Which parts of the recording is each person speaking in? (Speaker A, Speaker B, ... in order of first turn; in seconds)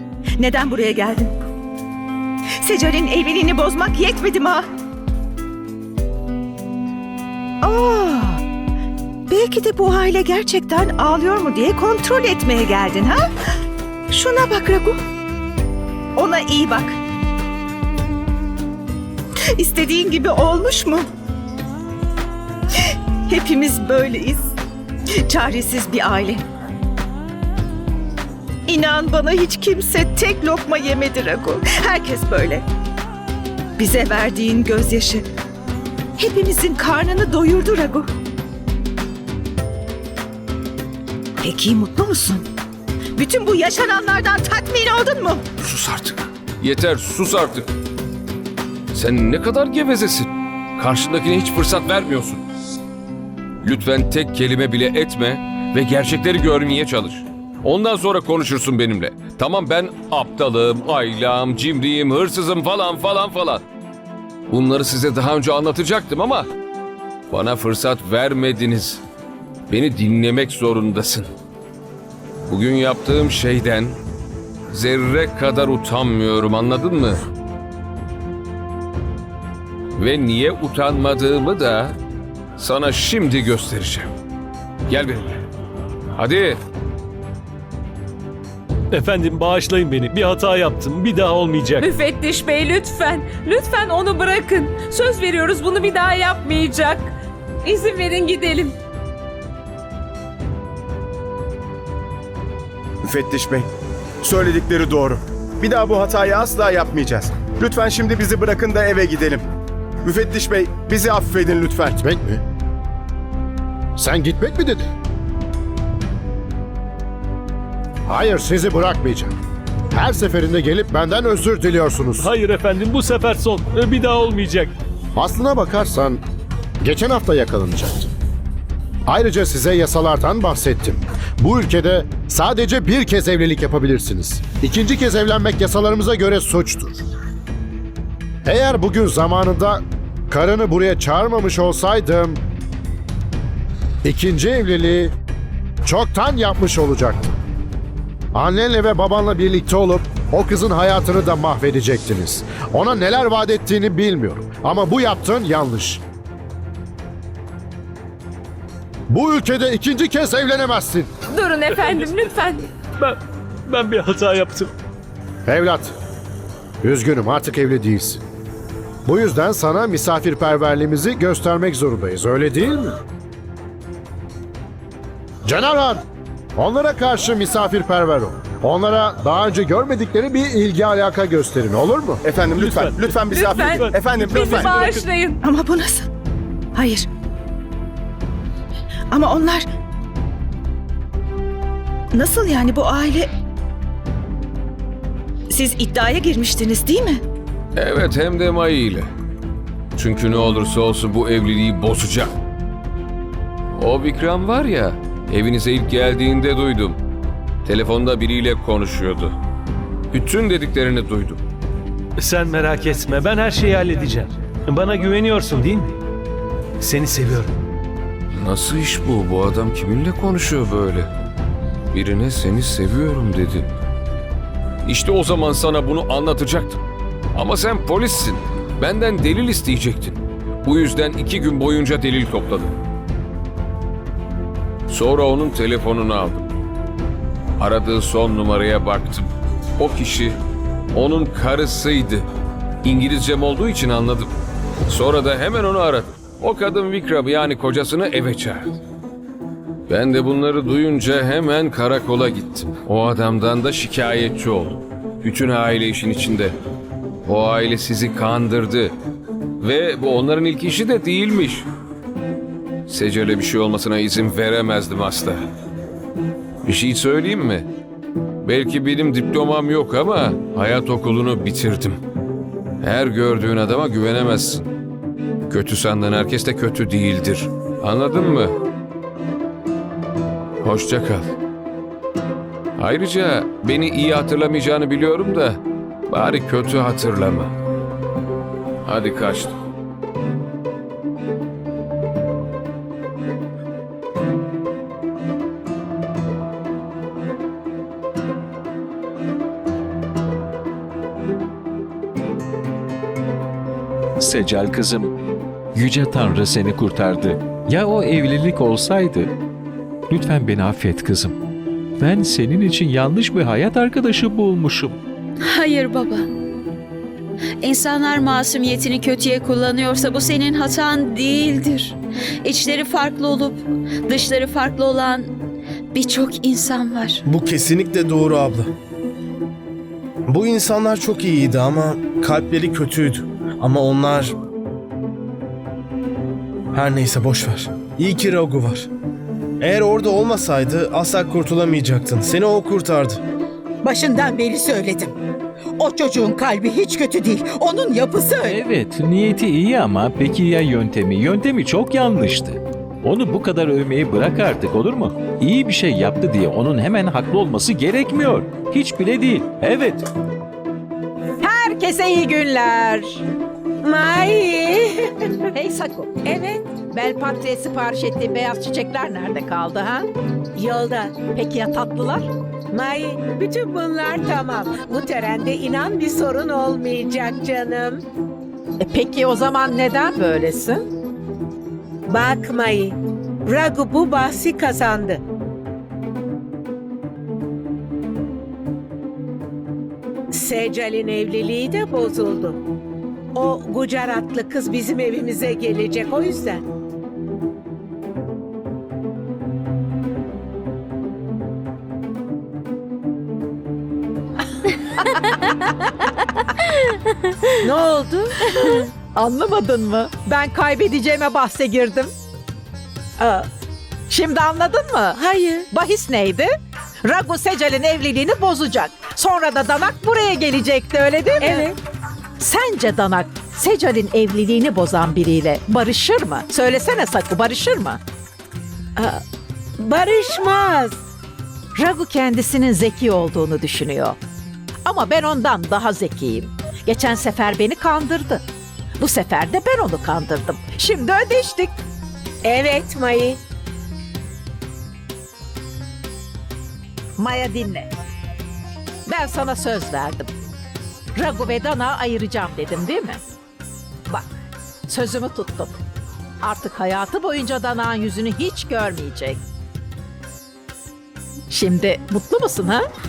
Speaker A: 0.4-1.3, 2.6-4.6, 7.6-8.4, 9.3-13.2, 14.1-15.0, 16.2-17.0, 19.6-21.1, 23.3-24.5, 25.3-26.4, 28.7-32.6, 33.8-35.2, 36.2-38.1, 41.4-42.5, 43.2-45.4, 185.4-186.1, 186.8-187.1, 189.1-189.7, 192.1-193.3, 195.5-197.2
Speaker B: 45.6-47.7, 48.9-52.4, 53.6-63.6, 64.5-66.5, 67.3-69.0, 69.7-71.3, 72.5-74.0, 74.7-77.2, 80.0-82.0, 82.6-84.1, 84.9-85.3, 86.2-86.6, 197.8-199.1, 200.0-202.3, 203.8-207.0, 207.7-209.3, 210.1-211.4, 218.4-221.1, 221.9-223.7, 224.9-226.8, 227.3-232.7, 234.9-236.4, 237.6-239.3, 239.8-240.3, 240.9-242.2, 242.8-244.3, 244.9-248.7, 249.9-256.5, 257.2-258.9, 259.6-261.7, 262.9-265.4, 266.6-267.7, 268.4-272.0, 272.8-274.7, 275.5-278.6, 280.6-281.3, 282.8-287.5, 288.9-289.5
Speaker C: 88.9-91.9, 122.2-124.7, 163.7-164.7, 182.6-183.1, 184.0-184.3, 212.2-215.9, 216.8-217.5
Speaker D: 91.8-97.1, 97.6-98.8, 161.3-162.7, 183.3-185.4
Speaker E: 103.0-103.7, 104.2-109.4, 110.0-112.0, 182.2-184.7
Speaker F: 112.0-112.4, 114.0-114.9, 118.1-119.3, 119.9-122.3, 125.2-126.2, 126.8-128.1, 129.1-137.0, 138.4-142.4, 144.1-145.1, 145.8-147.3, 148.3-156.0, 159.1-161.1, 165.5-165.9, 166.8-168.2, 169.1-173.0, 175.5-176.0, 176.6-182.2
Speaker G: 184.5-184.8, 327.3-328.7, 330.3-334.3, 336.7-338.9, 339.6-343.2
Speaker H: 304.2-305.1, 305.7-309.3, 310.1-311.4, 312.0-315.0, 348.4-360.1
Speaker I: 315.4-316.3, 317.6-325.3, 325.9-327.2
Speaker J: 343.8-345.2, 345.8-348.7
Speaker K: 361.4-363.2, 365.5-366.2, 366.9-370.1, 371.2-372.3, 378.8-380.9, 409.1-412.1, 414.1-416.5, 417.0-421.7, 422.4-428.0, 431.8-434.2, 434.9-438.4, 439.0-441.7, 447.2-447.9, 449.1-450.3, 451.1-453.2, 454.9-455.8, 456.4-459.4, 461.5-462.9
Speaker L: 363.8-365.1, 366.2-366.7, 370.6-371.2, 372.7-378.0, 382.1-385.2, 390.3-392.6, 393.3-396.6, 407.6-408.3, 421.4-421.8, 429.0-429.2, 429.8-431.0, 442.4-443.4